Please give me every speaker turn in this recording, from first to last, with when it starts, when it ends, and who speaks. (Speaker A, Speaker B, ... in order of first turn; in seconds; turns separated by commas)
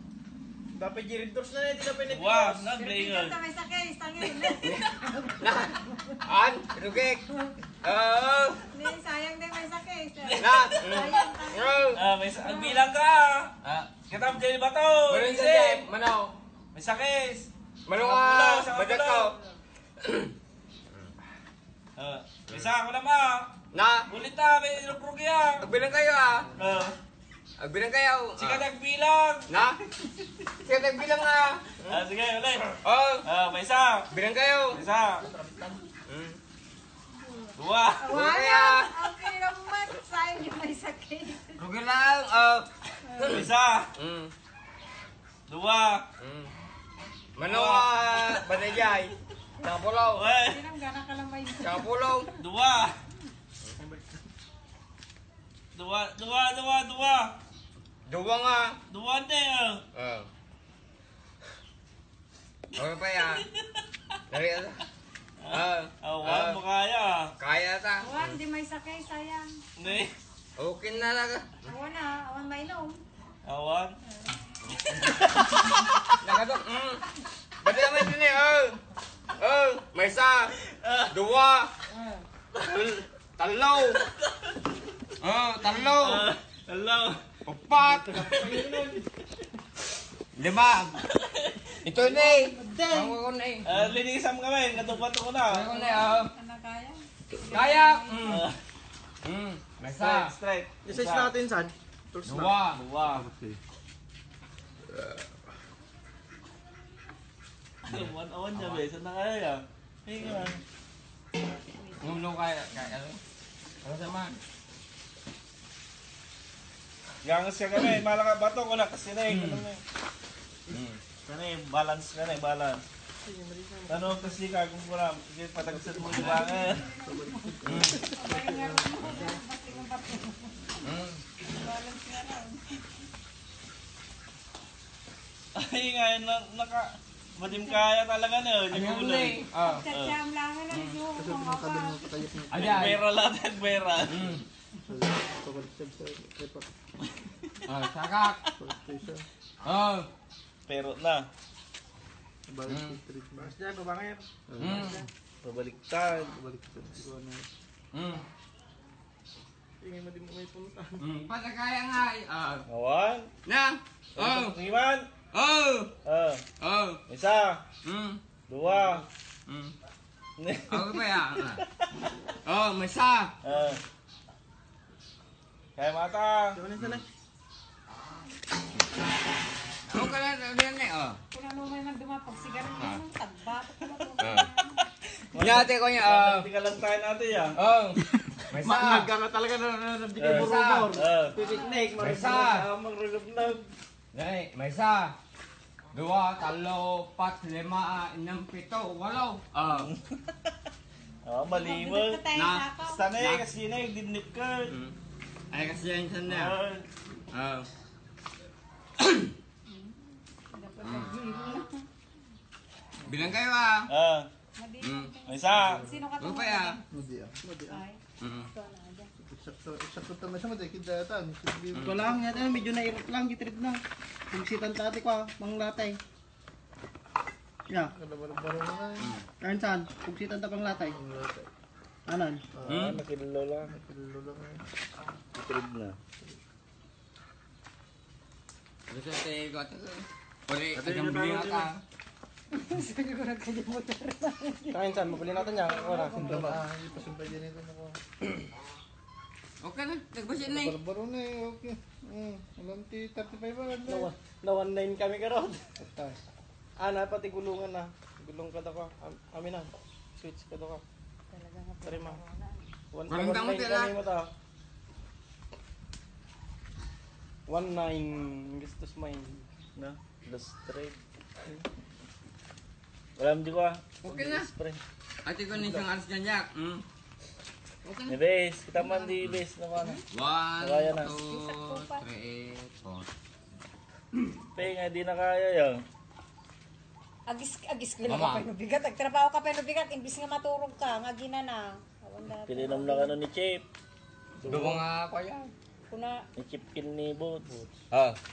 Speaker A: 0.7-2.6, Speaker B: 2.1-3.4, Speaker C: 2.5-5.3, Speaker D: 4.6-8.6, Speaker C: 8.7-12.8, Speaker D: 10.4-12.0, Speaker B: 11.9-15.9, Speaker D: 15.1-16.4, Speaker B: 16.7-19.4, Speaker D: 17.9-19.3, Speaker D: 20.0-20.3, Speaker B: 22.0-23.5, Speaker D: 23.7-24.1, Speaker B: 24.1-25.7, Speaker D: 25.6-26.5, Speaker B: 26.6-26.9, Speaker D: 27.6-28.6, Speaker B: 28.4-29.5, Speaker D: 29.5-29.8, Speaker D: 30.6-32.0, Speaker B: 31.9-32.7, Speaker D: 32.7-33.2, Speaker B: 33.2-34.1, Speaker D: 34.1-34.8, Speaker B: 34.7-35.3, Speaker D: 36.1-36.4, Speaker C: 37.2-41.6, Speaker B: 37.5-38.1, Speaker D: 38.1-39.1, Speaker D: 41.5-44.3, Speaker C: 43.0-43.4, Speaker B: 43.3-43.9, Speaker B: 45.5-46.0, Speaker D: 46.2-46.5, Speaker D: 47.4-50.2, Speaker B: 47.4-48.4, Speaker B: 50.2-50.6, Speaker C: 50.4-51.9, Speaker D: 51.6-52.3, Speaker B: 52.4-52.9, Speaker B: 55.7-57.3, Speaker D: 58.1-58.8, Speaker B: 58.9-59.8, Speaker D: 59.9-60.3, Speaker D: 62.7-63.4, Speaker B: 63.3-63.6, Speaker D: 64.3-64.8, Speaker B: 65.4-67.3, Speaker D: 65.5-66.6, Speaker D: 67.4-68.4, Speaker C: 68.0-69.5, Speaker B: 69.8-70.1, Speaker D: 70.6-71.7, Speaker C: 71.6-73.0, Speaker B: 73.4-73.9, Speaker D: 76.1-77.0, Speaker D: 77.6-78.8, Speaker D: 79.4-80.5, Speaker B: 80.6-81.1, Speaker D: 81.1-81.7, Speaker B: 82.5-83.0, Speaker D: 83.4-84.0, Speaker D: 85.2-86.2, Speaker B: 86.0-87.2, Speaker D: 87.5-88.5, Speaker B: 88.1-88.8, Speaker A: 88.3-88.8, Speaker D: 90.3-91.0, Speaker B: 91.1-91.6, Speaker D: 91.8-93.9, Speaker A: 92.0-93.1, Speaker B: 93.6-95.7, Speaker D: 95.5-96.3, Speaker C: 95.7-98.3, Speaker D: 97.5-98.4, Speaker B: 98.2-98.5, Speaker D: 99.2-100.3, Speaker B: 99.8-101.3, Speaker A: 100.8-101.7, Speaker D: 102.2-102.8, Speaker B: 102.3-103.3, Speaker E: 103.1-103.6, Speaker B: 107.8-110.6, Speaker D: 107.9-108.8, Speaker C: 111.8-112.3, Speaker D: 112.0-113.2, Speaker D: 113.8-114.4, Speaker B: 117.2-119.8, Speaker D: 119.3-119.6, Speaker D: 120.7-121.0, Speaker B: 121.2-122.8, Speaker A: 123.3-124.0, Speaker B: 123.9-126.8, Speaker E: 125.6-129.4, Speaker C: 126.3-132.8, Speaker D: 127.6-128.0, Speaker D: 130.8-131.2, Speaker B: 135.5-139.4, Speaker C: 137.4-137.8, Speaker D: 138.7-139.9, Speaker C: 139.6-142.1, Speaker B: 139.9-140.2, Speaker D: 140.7-141.0, Speaker E: 141.1-143.0, Speaker D: 142.5-143.0, Speaker B: 142.7-144.1, Speaker D: 144.1-144.4, Speaker E: 144.9-146.7, Speaker D: 147.7-148.4, Speaker E: 148.6-149.2, Speaker D: 149.6-150.1, Speaker B: 150.7-151.2, Speaker E: 152.5-153.5, Speaker D: 152.7-153.0, Speaker A: 153.4-154.2, Speaker E: 154.5-155.0, Speaker D: 154.6-155.0, Speaker B: 155.4-156.3, Speaker E: 156.3-157.5, Speaker D: 157.9-158.2, Speaker A: 159.8-161.0, Speaker D: 161.0-162.6, Speaker B: 162.7-163.3, Speaker D: 163.4-164.6, Speaker B: 164.2-165.1, Speaker D: 165.3-165.9, Speaker B: 166.0-166.4, Speaker D: 166.6-167.0, Speaker B: 167.1-167.6, Speaker D: 167.8-168.2, Speaker B: 168.5-169.1, Speaker D: 169.4-169.7, Speaker B: 170.4-171.9, Speaker D: 170.7-171.6, Speaker D: 172.4-173.3, Speaker B: 173.4-173.8, Speaker B: 175.8-176.6, Speaker A: 176.6-177.0, Speaker D: 176.8-177.0, Speaker D: 179.9-181.2, Speaker C: 181.3-184.9, Speaker D: 184.2-184.5, Speaker B: 185.3-187.6, Speaker D: 185.4-186.5, Speaker D: 187.6-189.1, Speaker A: 188.1-192.9, Speaker B: 190.2-191.3, Speaker D: 190.3-190.9, Speaker C: 191.3-192.0, Speaker D: 191.9-192.7, Speaker D: 194.1-195.1, Speaker D: 195.9-199.9, Speaker B: 199.7-200.3, Speaker B: 201.2-202.2, Speaker C: 201.4-203.1, Speaker D: 202.3-203.4, Speaker B: 202.8-204.7, Speaker D: 205.5-206.6, Speaker B: 206.2-206.8, Speaker D: 207.3-207.7, Speaker D: 209.0-209.3, Speaker C: 209.7-211.8, Speaker D: 210.8-211.2, Speaker D: 213.0-213.9, Speaker B: 213.9-214.3, Speaker C: 214.6-216.8, Speaker D: 214.8-215.2, Speaker B: 215.2-215.9, Speaker E: 215.6-216.0, Speaker D: 216.2-216.8, Speaker E: 216.9-217.8, Speaker C: 217.7-219.1, Speaker D: 218.2-218.5, Speaker E: 219.2-222.4, Speaker D: 221.7-222.1, Speaker A: 221.8-223.8, Speaker A: 224.3-226.0, Speaker E: 227.9-229.2, Speaker D: 229.0-229.2, Speaker A: 229.4-231.0, Speaker E: 230.8-231.5, Speaker A: 232.1-232.4, Speaker E: 232.5-232.9, Speaker B: 232.6-233.7, Speaker D: 232.7-233.0, Speaker E: 233.7-234.6, Speaker B: 235.3-235.9, Speaker D: 238.9-241.8, Speaker B: 240.8-241.7, Speaker C: 242.5-246.6, Speaker A: 244.7-246.6, Speaker E: 245.9-248.0, Speaker D: 249.6-250.8, Speaker E: 250.4-254.1, Speaker A: 253.8-255.6, Speaker E: 255.8-256.2, Speaker A: 256.8-260.8, Speaker C: 261.3-262.7, Speaker A: 261.8-262.2, Speaker A: 262.9-264.3, Speaker D: 263.1-264.0, Speaker A: 267.5-269.4, Speaker B: 269.8-270.9, Speaker B: 273.2-274.8, Speaker D: 274.0-274.5, Speaker D: 275.2-276.8, Speaker D: 277.8-278.1, Speaker B: 278.1-280.0, Speaker C: 278.8-279.1, Speaker D: 280.1-283.1, Speaker B: 280.6-281.1, Speaker C: 281.1-282.0, Speaker B: 284.6-285.8, Speaker C: 287.3-293.1, Speaker D: 288.0-288.5, Speaker B: 292.4-293.6, Speaker E: 294.4-294.8, Speaker D: 294.4-295.5, Speaker C: 295.9-296.2, Speaker B: 296.4-297.6, Speaker D: 297.9-298.2